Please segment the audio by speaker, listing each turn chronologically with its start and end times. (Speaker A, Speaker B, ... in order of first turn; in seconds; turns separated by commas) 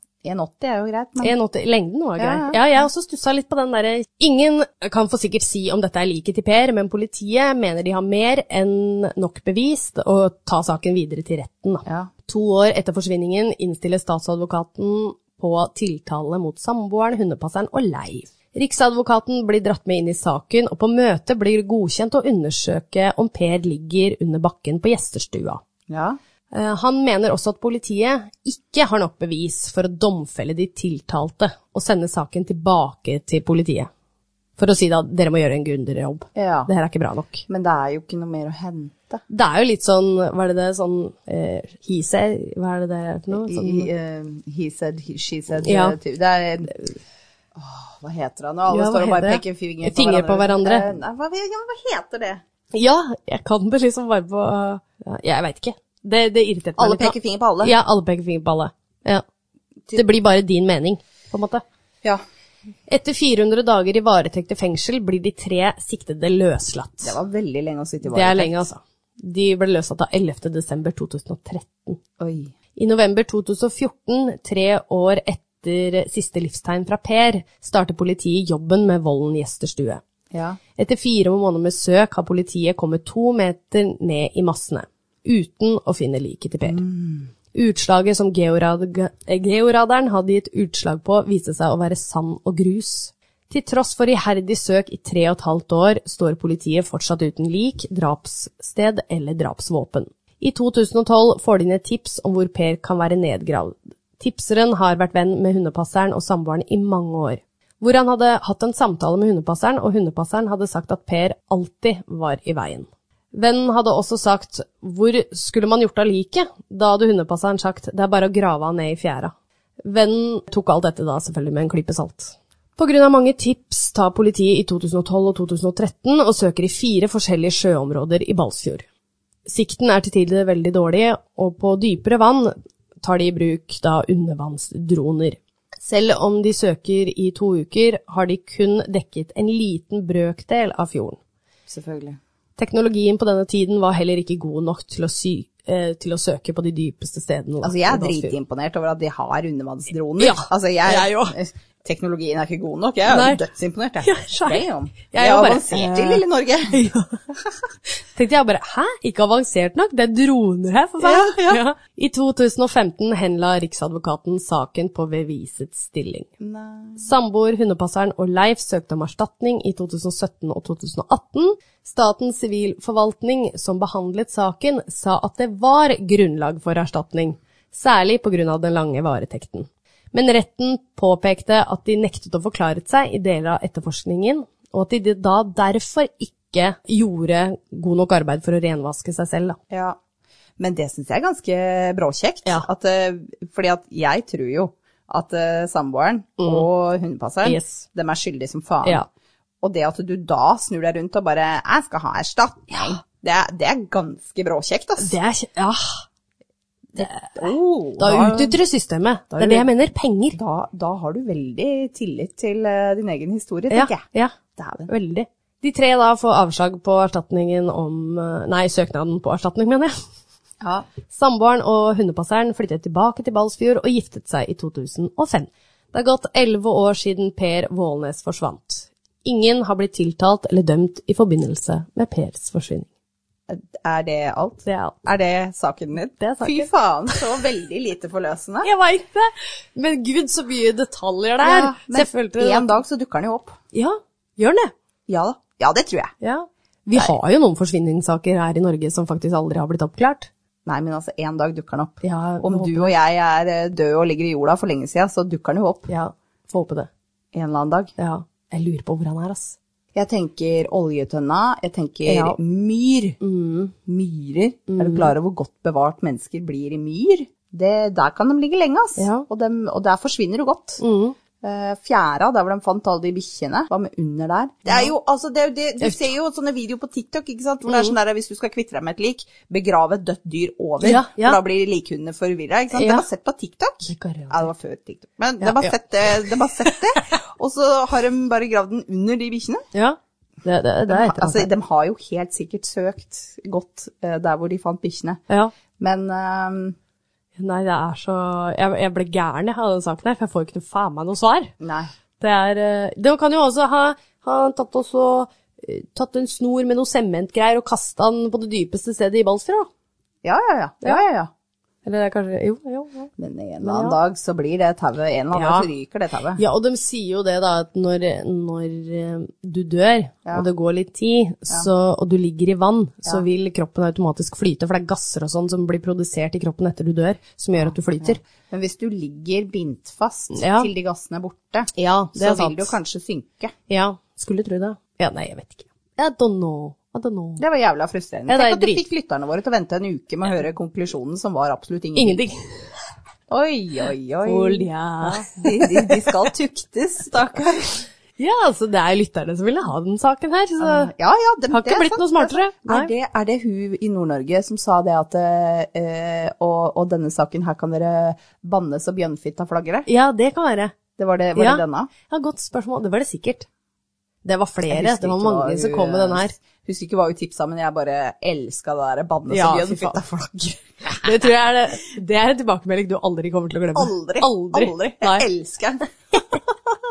Speaker A: 0.2-1.4, Speaker B: 1.2-25.6, Speaker A: 2.2-2.6, Speaker A: 11.9-12.1, Speaker A: 25.9-26.2, Speaker B: 26.5-33.9, Speaker B: 34.6-37.5, Speaker A: 36.4-36.7, Speaker A: 37.5-39.2, Speaker B: 39.3-43.9, Speaker A: 43.3-46.8, Speaker B: 45.6-46.0, Speaker A: 47.6-52.4, Speaker B: 48.7-50.9, Speaker B: 52.7-59.2, Speaker A: 56.8-57.8, Speaker B: 59.9-61.6, Speaker B: 62.9-67.2, Speaker A: 67.0-68.7, Speaker B: 68.1-72.0, Speaker A: 72.2-72.5, Speaker B: 72.8-80.0, Speaker A: 80.3-80.6, Speaker B: 80.8-86.8, Speaker A: 86.7-87.3, Speaker B: 87.5-119.3, Speaker B: 119.8-128.9, Speaker B: 129.5-141.2, Speaker A: 141.7-142.2, Speaker B: 142.6-148.4, Speaker A: 147.6-156.8, Speaker B: 150.2-151.3, Speaker B: 153.1-153.5, Speaker B: 154.0-157.2, Speaker B: 158.1-166.3, Speaker A: 161.0-161.6, Speaker A: 166.4-167.1, Speaker B: 167.0-189.6, Speaker A: 189.7-190.0, Speaker A: 190.6-199.0, Speaker B: 196.4-196.7, Speaker B: 197.4-197.8, Speaker A: 199.6-205.2, Speaker B: 205.0-206.1, Speaker A: 206.9-208.6, Speaker B: 207.0-207.4, Speaker B: 208.0-210.4, Speaker A: 209.4-209.7, Speaker A: 210.3-214.0, Speaker B: 213.7-219.9, Speaker A: 214.6-214.9, Speaker A: 220.6-220.9, Speaker B: 221.1-232.9, Speaker A: 233.5-238.7, Speaker B: 234.7-235.0, Speaker B: 236.2-237.2, Speaker B: 238.6-242.7, Speaker A: 241.4-243.6, Speaker B: 243.7-244.7, Speaker A: 245.1-246.1, Speaker B: 246.2-250.3, Speaker A: 250.7-255.9, Speaker B: 252.0-252.9, Speaker B: 255.9-256.9, Speaker A: 257.3-257.9, Speaker B: 258.0-259.6, Speaker A: 259.9-263.2, Speaker B: 262.1-262.4, Speaker B: 263.2-263.7, Speaker A: 263.9-270.8, Speaker B: 264.7-265.1, Speaker B: 269.0-269.3, Speaker B: 270.8-271.1, Speaker A: 271.4-289.6, Speaker B: 277.7-277.9, Speaker B: 280.8-281.4, Speaker B: 282.8-283.1, Speaker B: 283.9-284.5, Speaker B: 285.4-286.7, Speaker B: 289.7-291.5, Speaker A: 290.9-295.2, Speaker A: 295.8-296.8, Speaker B: 297.4-301.5, Speaker A: 301.6-301.9, Speaker B: 302.2-309.7, Speaker A: 310.2-311.3, Speaker B: 311.9-314.0, Speaker A: 313.2-316.4, Speaker B: 315.3-315.7, Speaker B: 316.4-328.2, Speaker A: 327.6-333.5, Speaker B: 330.4-330.7, Speaker B: 331.8-332.7, Speaker B: 333.7-337.4, Speaker A: 337.4-342.2, Speaker B: 338.3-338.9, Speaker B: 342.0-342.5, Speaker A: 343.3-347.9, Speaker B: 344.2-346.1, Speaker B: 348.2-350.9, Speaker A: 350.6-359.9, Speaker B: 351.5-352.9, Speaker B: 359.9-360.8, Speaker A: 361.0-361.9, Speaker B: 361.4-363.5, Speaker B: 364.2-366.3, Speaker A: 364.7-371.1, Speaker B: 369.3-370.1, Speaker B: 370.9-375.3, Speaker A: 373.8-375.8